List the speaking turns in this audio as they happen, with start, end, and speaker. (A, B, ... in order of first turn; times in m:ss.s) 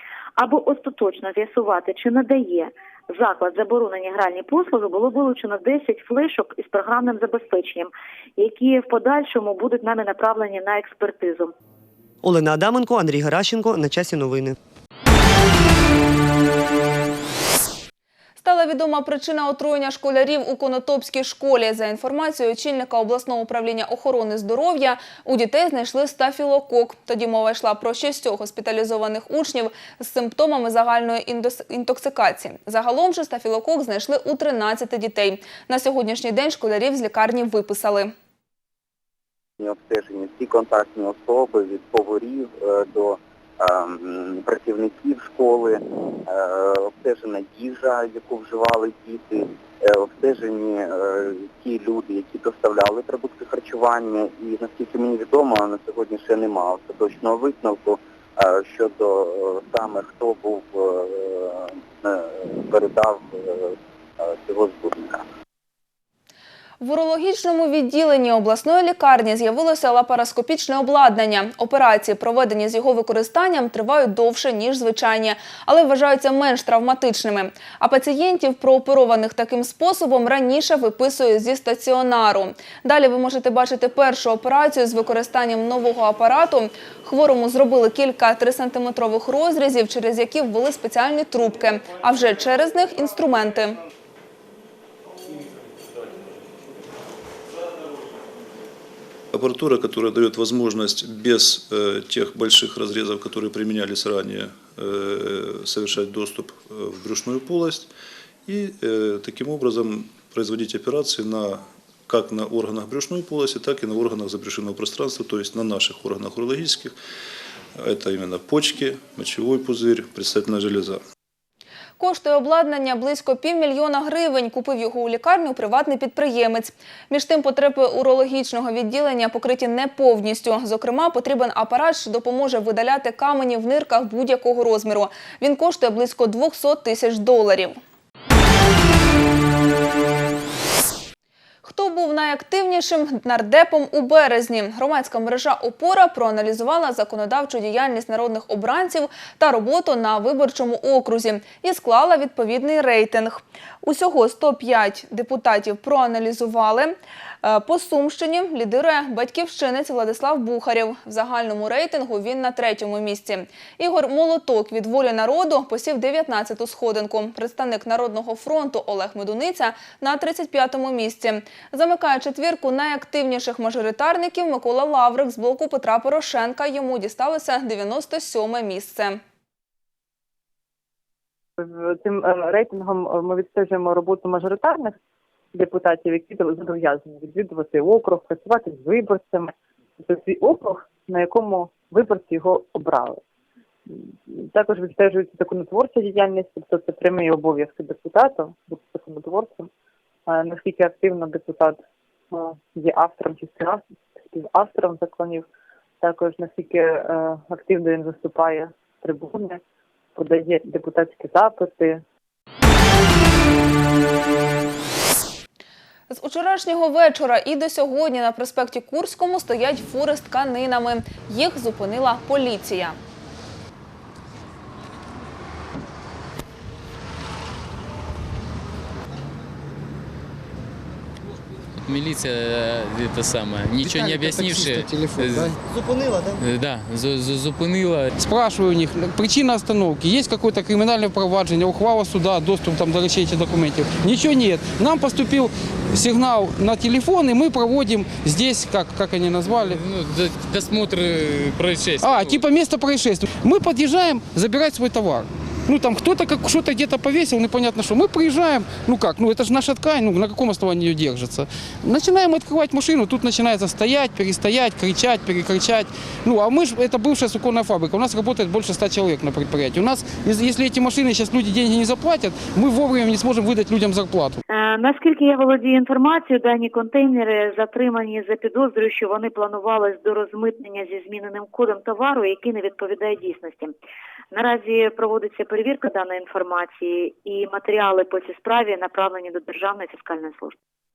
0:00.4-0:11.5 A
0:12.2-0:14.6 B
0:18.4-0:38.1 C
0:39.6-0:45.8 D
0:46.3-1:01.5 D
1:02.7-1:03.2 D
1:04.3-1:05.2 D
1:06.8-1:33.8 C
1:39.3-1:47.9 E
1:48.5-1:56.9 E
1:57.8-2:01.0 E
2:02.0-2:17.8 C
2:21.6-2:59.2 C
3:01.6-3:05.0 F
3:05.5-3:13.2 F
3:14.3-3:19.7 F
3:20.3-3:21.8 F
3:22.3-3:25.4 F
3:26.0-3:29.6 F
3:30.2-3:32.0 F
3:36.1-3:43.0 C
3:51.8-3:55.6 G
3:55.7-3:56.4 B
3:56.4-3:58.1 G
3:58.2-4:09.8 H
4:09.5-4:12.4 G
4:12.0-4:34.4 H
4:34.5-4:43.7 A
4:44.3-4:50.5 A